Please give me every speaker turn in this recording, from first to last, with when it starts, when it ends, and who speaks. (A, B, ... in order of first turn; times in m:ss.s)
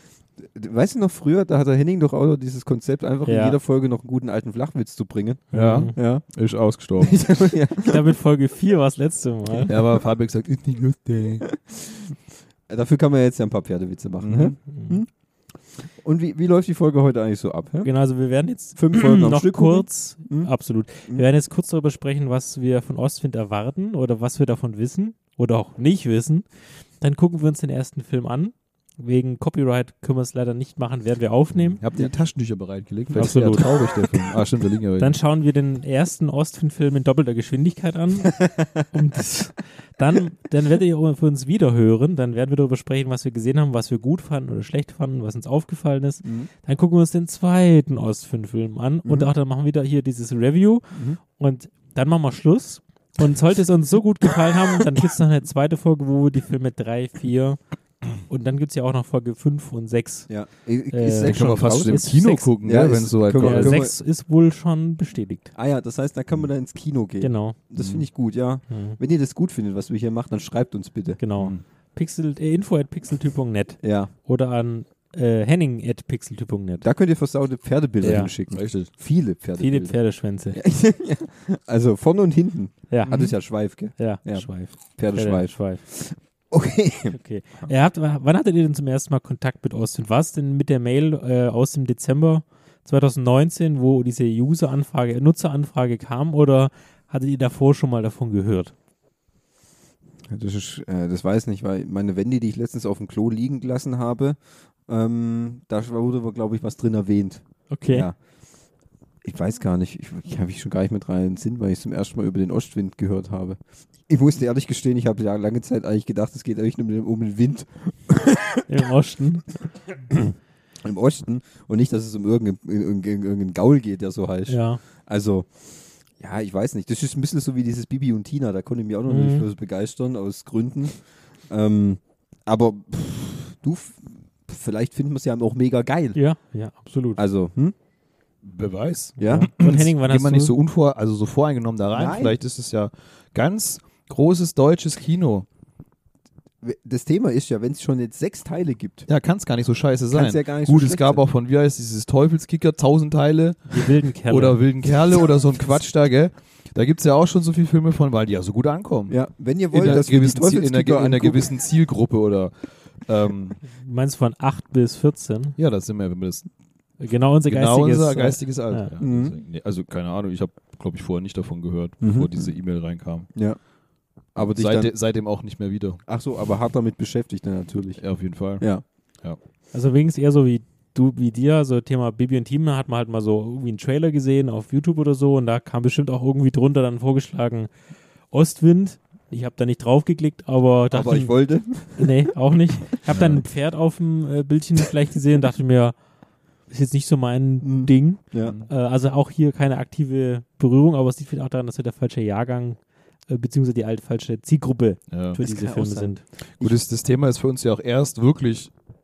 0:00.4-0:06.2 A
0:03.2-0:03.6 B
0:05.5-0:05.9 B
0:05.5-0:07.2 C
0:07.0-0:08.1 A
0:07.8-0:09.7 B
0:09.5-0:10.0 A
0:09.7-0:11.5 C
0:11.5-0:12.1 A
0:12.7-0:15.1 A
0:14.2-0:14.6 C
0:14.7-0:15.0 B
0:15.8-0:17.9 A
0:17.8-0:26.4 B
0:18.8-0:20.5 A
0:27.0-0:31.8 B
0:31.8-0:35.2 C
0:33.2-0:34.2 B
0:35.0-0:57.6 B
0:38.2-0:38.8 A
0:46.2-0:46.5 A
0:50.9-0:51.2 A
0:58.2-1:00.3 B
1:00.3-1:03.9 A
1:00.9-1:02.5 B
1:01.2-1:03.8 C
1:03.4-1:05.5 B
1:05.5-1:11.2 A
1:07.2-1:07.6 B
1:07.8-1:08.0 C
1:08.7-1:09.0 B
1:11.2-1:16.8 B
1:13.8-1:14.1 A
1:16.8-1:20.0 A
1:18.0-1:18.3 B
1:18.5-1:18.9 C
1:19.6-1:20.6 B
1:20.5-1:27.2 A
1:22.9-1:23.2 B
1:23.0-1:23.3 C
1:23.9-1:25.8 B
1:27.1-1:38.7 B
1:40.3-1:48.2 A
1:47.7-1:48.1 B
1:49.2-1:58.7 A
1:58.7-1:59.5 B
2:00.1-2:05.5 A
2:04.5-2:04.8 B
2:06.2-2:16.2 A
2:09.1-2:09.5 B
2:16.1-2:17.2 B
2:17.2-2:17.7 A
2:18.4-2:25.4 C
2:19.2-2:19.5 A
2:19.2-2:20.5 B
2:21.9-2:22.4 A
2:26.6-2:29.1 A
2:29.1-2:39.2 C
2:30.1-2:31.2 A
2:33.7-2:34.6 B
2:39.1-2:41.5 A
2:39.7-2:43.6 C
2:43.7-2:45.6 B
2:45.6-2:46.5 C
2:47.0-2:48.9 B
2:47.5-2:53.3 C
2:49.0-2:49.4 A
2:52.0-2:52.5 A
2:53.3-2:53.6 A
2:54.3-2:54.9 A
2:54.4-2:56.0 C
2:56.1-2:58.0 A
2:58.0-2:58.7 C
2:58.6-2:58.8 A
2:59.7-3:07.7 B
3:08.3-3:11.3 B
3:10.9-3:12.3 A
3:11.9-3:15.9 B
3:13.1-3:13.4 C
3:16.7-3:26.2 B
3:17.6-3:18.5 A
3:18.4-3:18.7 C
3:25.1-3:25.4 C
3:25.4-3:26.8 A
3:26.6-3:28.7 C